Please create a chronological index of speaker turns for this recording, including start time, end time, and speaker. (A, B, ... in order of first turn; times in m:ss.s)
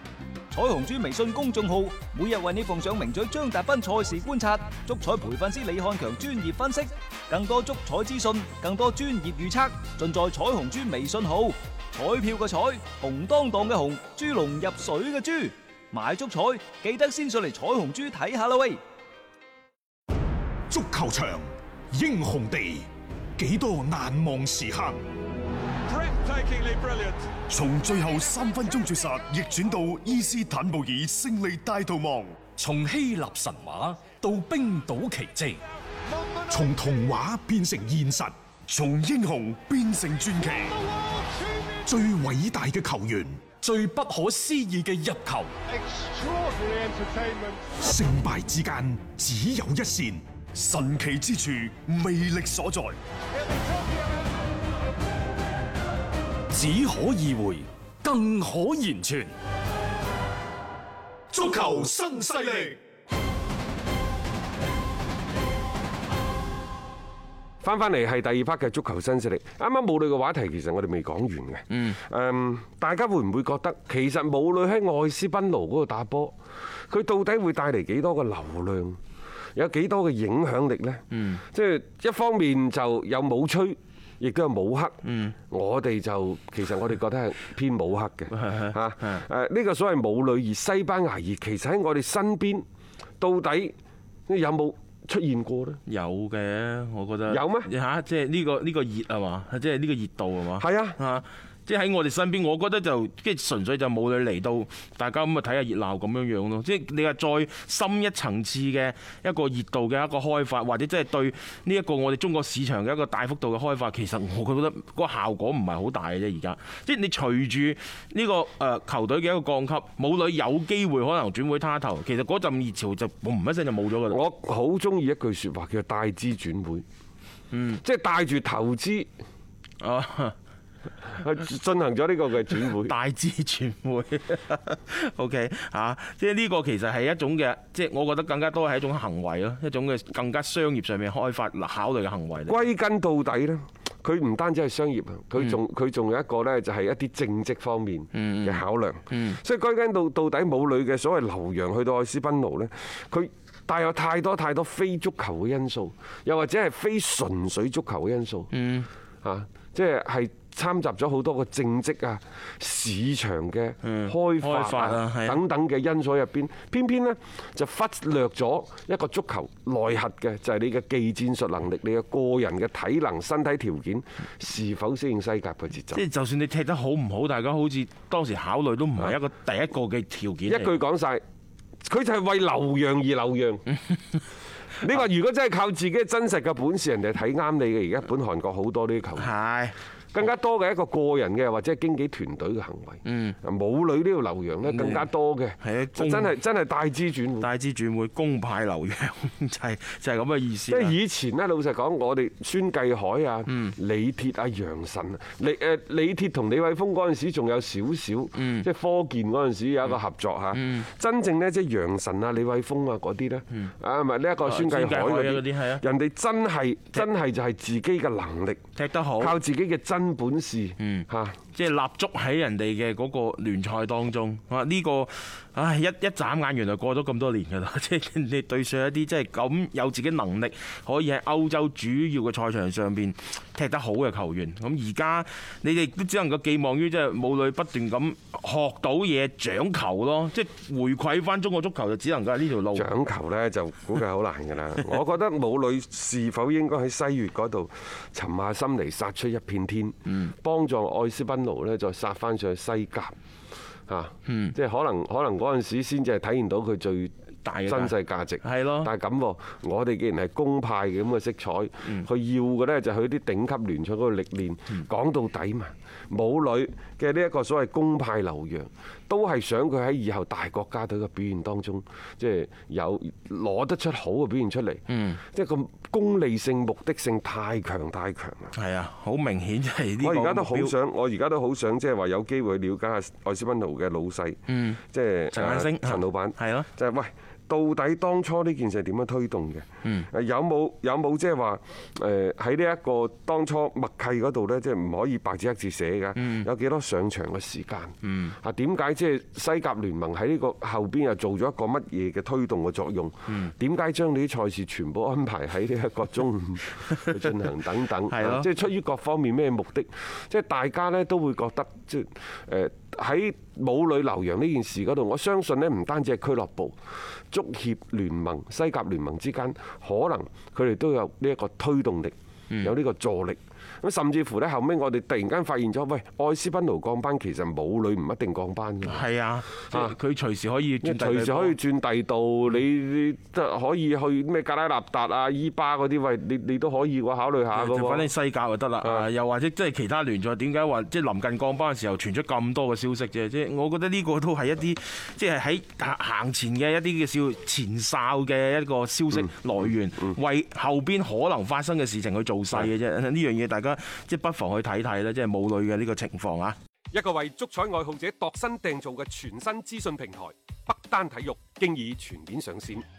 0:00.5-0:18.8 A
0:20.7-0:25.0 B
0:27.5-0:32.6 B
0:32.5-0:35.6 C
0:36.4-0:40.8 B
0:41.8-0:43.6 B
0:43.6-0:45.5 C
0:46.6-0:53.0 B
0:56.5-0:59.3 C
1:01.3-1:02.8 B
1:07.6-1:16.3 D
1:16.9-1:19.0 D
1:19.6-1:32.6 D
1:21.1-1:21.4 E
1:25.0-1:25.3 E
1:28.3-1:29.2 E
1:33.2-1:33.7 D
1:34.3-1:35.8 D
1:35.9-2:04.2 E
1:37.3-1:37.7 D
1:40.6-1:41.0 D
2:04.1-2:06.8 D
2:07.5-2:07.8 E
2:07.8-2:09.1 D
2:09.8-2:10.3 E
2:11.2-2:12.9 D
2:12.8-2:22.6 E
2:22.5-2:38.5 D
2:28.1-2:29.4 E
2:38.5-2:38.9 E
2:39.2-2:56.0 D
2:43.8-2:45.4 E
2:55.9-3:00.7 E
3:00.5-3:01.2 D
3:01.8-3:03.7 D
3:04.8-3:09.3 D
3:09.2-3:09.7 E
3:10.1-3:17.5 D
3:13.0-3:13.4 E
3:14.6-3:15.1 E
3:15.6-3:16.3 E
3:17.4-3:20.9 E
3:20.7-3:38.6 D
3:23.5-3:23.7 E
3:28.4-3:28.7 E
3:30.5-3:30.9 E
3:34.4-3:35.8 E
3:38.8-3:39.4 E
3:39.2-3:41.4 D
3:40.8-4:02.9 E
4:02.7-4:13.1 D
4:13.9-4:17.1 D
4:14.3-4:14.5 E
4:17.4-4:18.9 E
4:17.6-4:38.5 D
4:34.9-4:35.2 E
4:38.5-4:40.7 E
4:40.0-5:16.8 D
4:44.5-4:44.8 E
4:45.3-4:46.7 E
4:56.2-4:56.5 E
4:58.0-4:58.3 E
5:08.1-5:08.5 E
5:17.3-5:29.0 D
5:28.8-5:31.6 E
5:30.8-5:38.1 D
5:37.5-5:56.6 E
5:38.8-5:39.1 D
5:56.9-6:02.8 D